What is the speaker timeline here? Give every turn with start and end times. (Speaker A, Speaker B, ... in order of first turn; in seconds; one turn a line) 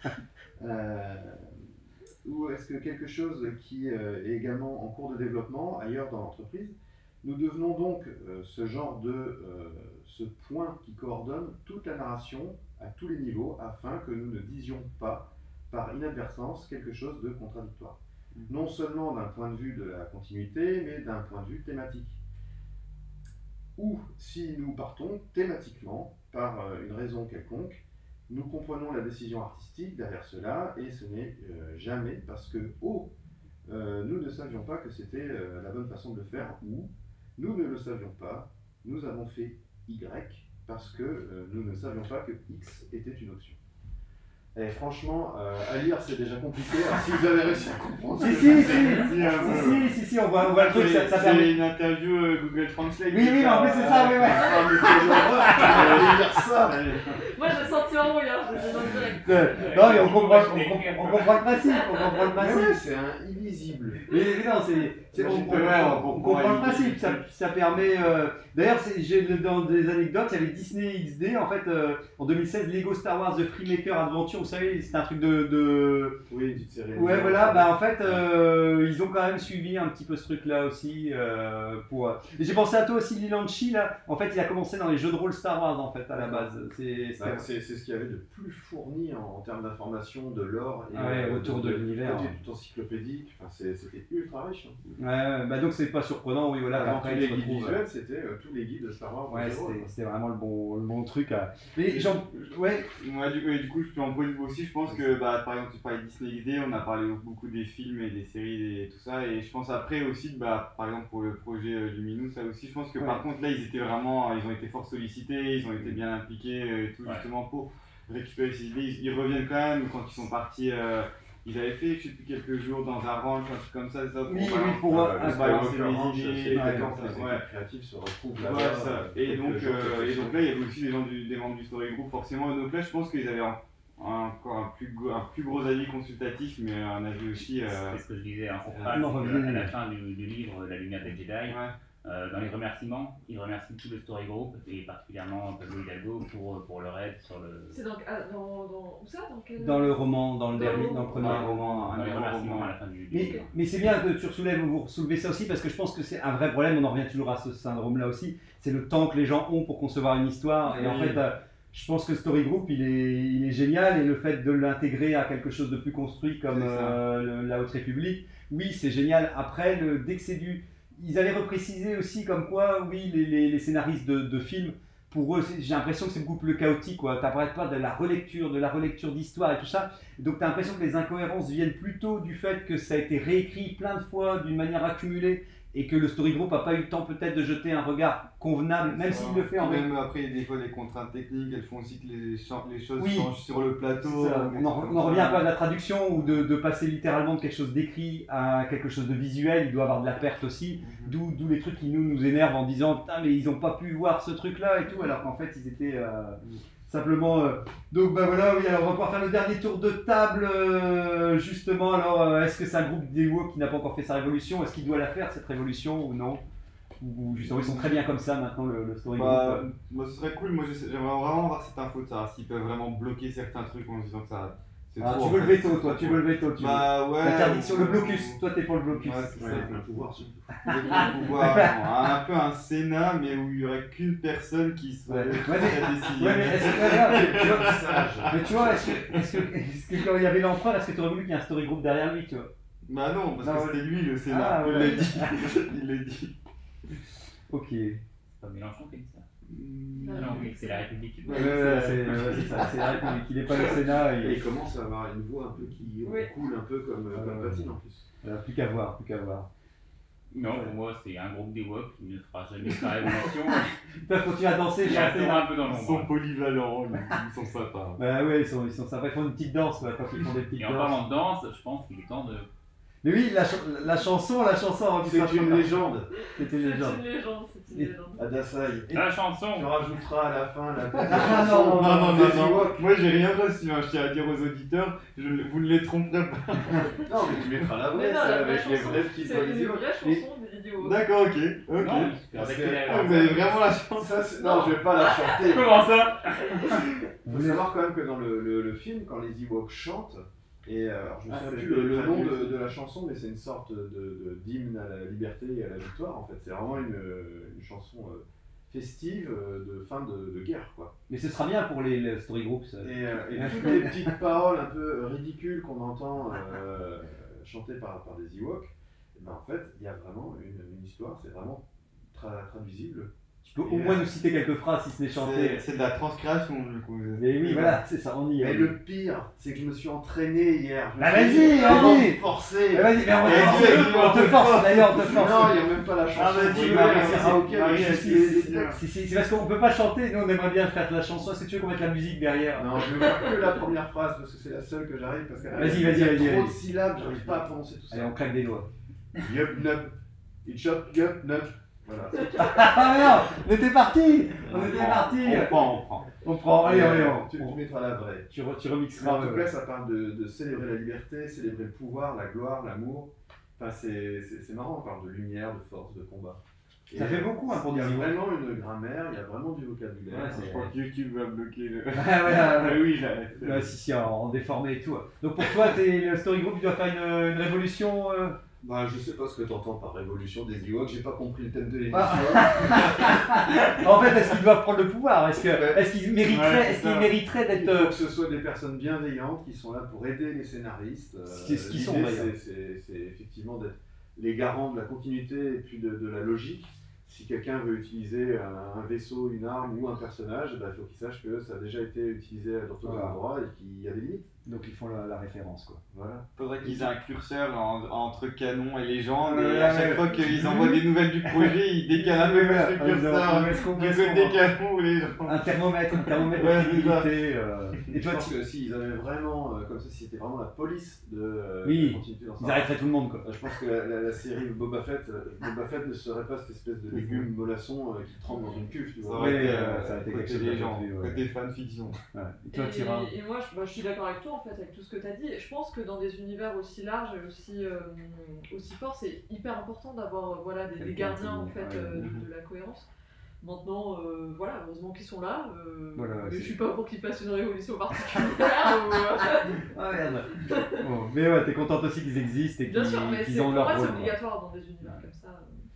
Speaker A: 0.6-1.5
Speaker A: 2.2-18.0
Speaker A: 18.5-22.2
Speaker A: 23.8-33.1
Speaker A: 33.7-43.6
Speaker A: 44.5-49.9
Speaker B: 48.2-51.6
Speaker C: 48.2-49.9
Speaker C: 50.4-57.2
Speaker B: 53.1-56.1
Speaker A: 53.9-56.8
Speaker D: 57.2-59.7
Speaker B: 59.2-62.8
Speaker E: 59.5-61.9
Speaker A: 62.4-64.1
Speaker B: 64.1-76.2
Speaker C: 65.2-67.2
Speaker A: 65.3-65.9
Speaker A: 76.3-77.8
Speaker B: 76.9-87.5
Speaker A: 86.1-86.5
Speaker A: 87.2-94.8
Speaker B: 90.9-92.4
Speaker B: 95.0-97.8
Speaker A: 96.7-99.9
Speaker B: 99.3-102.9
Speaker C: 102.9-127.4
Speaker B: 124.3-125.7
Speaker A: 124.9-130.5
Speaker B: 126.5-127.1
Speaker C: 128.4-138.0
Speaker E: 137.6-147.8
Speaker C: 138.7-139.1
Speaker B: 138.9-139.7
Speaker C: 141.5-141.7
Speaker D: 147.7-151.2
Speaker B: 149.6-152.0
Speaker C: 150.7-152.7
Speaker E: 151.2-153.5
Speaker B: 153.1-189.9
Speaker C: 160.7-161.2
Speaker C: 166.5-167.0
Speaker C: 188.8-195.5
Speaker B: 193.0-193.3
Speaker B: 194.0-216.4
Speaker C: 196.2-196.5
Speaker C: 200.8-201.2
Speaker B: 217.0-219.7
Speaker C: 217.4-217.9
Speaker C: 219.1-228.4
Speaker B: 225.0-229.8
Speaker C: 228.9-229.8
Speaker A: 229.4-231.2
Speaker C: 230.6-239.3
Speaker B: 230.7-231.9
Speaker B: 235.1-237.7
Speaker A: 236.6-238.4
Speaker B: 238.3-242.5
Speaker C: 242.9-246.3
Speaker B: 243.4-245.5
Speaker B: 247.5-248.0
Speaker E: 248.3-249.3
Speaker C: 249.5-250.5
Speaker D: 250.0-250.9
Speaker E: 250.1-251.6
Speaker C: 251.2-253.0
Speaker B: 251.3-254.4
Speaker A: 254.2-258.1
Speaker D: 256.0-256.3
Speaker B: 257.1-259.5
Speaker E: 260.3-263.7
Speaker B: 264.1-265.5
Speaker E: 264.8-266.1
Speaker C: 265.6-268.0
Speaker B: 268.0-271.0
Speaker E: 270.6-272.5
Speaker B: 273.0-275.8
Speaker A: 275.0-276.1
Speaker B: 276.4-277.0
Speaker D: 276.4-278.2
Speaker A: 278.2-278.9
Speaker E: 278.9-279.8
Speaker A: 279.5-282.8
Speaker C: 281.0-287.0
Speaker B: 281.1-282.5
Speaker A: 287.0-289.9
Speaker D: 287.9-291.0
Speaker B: 289.3-290.2
Speaker C: 290.8-292.1
Speaker E: 291.8-293.7
Speaker A: 292.3-295.9
Speaker C: 292.9-294.2
Speaker D: 294.4-294.7
Speaker E: 295.4-296.8
Speaker C: 295.8-296.1
Speaker A: 297.2-310.9
Speaker B: 297.3-297.6
Speaker C: 301.3-302.6
Speaker B: 301.4-301.9
Speaker B: 311.1-314.1
Speaker A: 312.8-324.1
Speaker B: 323.4-325.6
Speaker C: 325.1-327.8
Speaker B: 327.2-328.7
Speaker A: 328.4-334.4
Speaker B: 331.0-342.9
Speaker C: 331.5-332.1
Speaker C: 333.1-335.5
Speaker A: 334.9-338.8
Speaker C: 336.2-338.8
Speaker A: 342.6-348.2
Speaker B: 345.5-346.6
Speaker B: 347.9-348.7
Speaker A: 349.2-352.9
Speaker B: 352.4-357.6
Speaker C: 354.4-356.1
Speaker A: 356.6-358.3
Speaker B: 358.3-359.5
Speaker A: 359.0-370.7
Speaker B: 366.9-368.2
Speaker C: 370.1-373.7
Speaker B: 370.1-370.4
Speaker B: 371.9-378.4
Speaker A: 378.6-383.1
Speaker B: 381.9-387.9
Speaker A: 385.4-385.8
Speaker C: 386.3-387.1
Speaker A: 387.4-404.3
Speaker B: 391.3-392.3
Speaker B: 402.8-403.2
Speaker B: 404.5-405.8
Speaker A: 405.9-406.3
Speaker C: 406.4-415.4
Speaker B: 409.2-414.4
Speaker B: 415.3-418.3
Speaker C: 416.0-417.1
Speaker A: 418.0-422.7
Speaker B: 421.6-423.2
Speaker A: 423.2-429.8
Speaker C: 426.9-427.3
Speaker D: 428.3-428.7
Speaker C: 429.0-432.0
Speaker B: 429.2-431.2
Speaker B: 432.1-433.1
Speaker D: 432.5-442.9
Speaker B: 440.8-442.1
Speaker C: 442.0-442.3
Speaker D: 443.4-449.6
Speaker B: 445.9-446.6
Speaker B: 449.2-454.2
Speaker D: 450.5-450.8
Speaker D: 452.7-455.6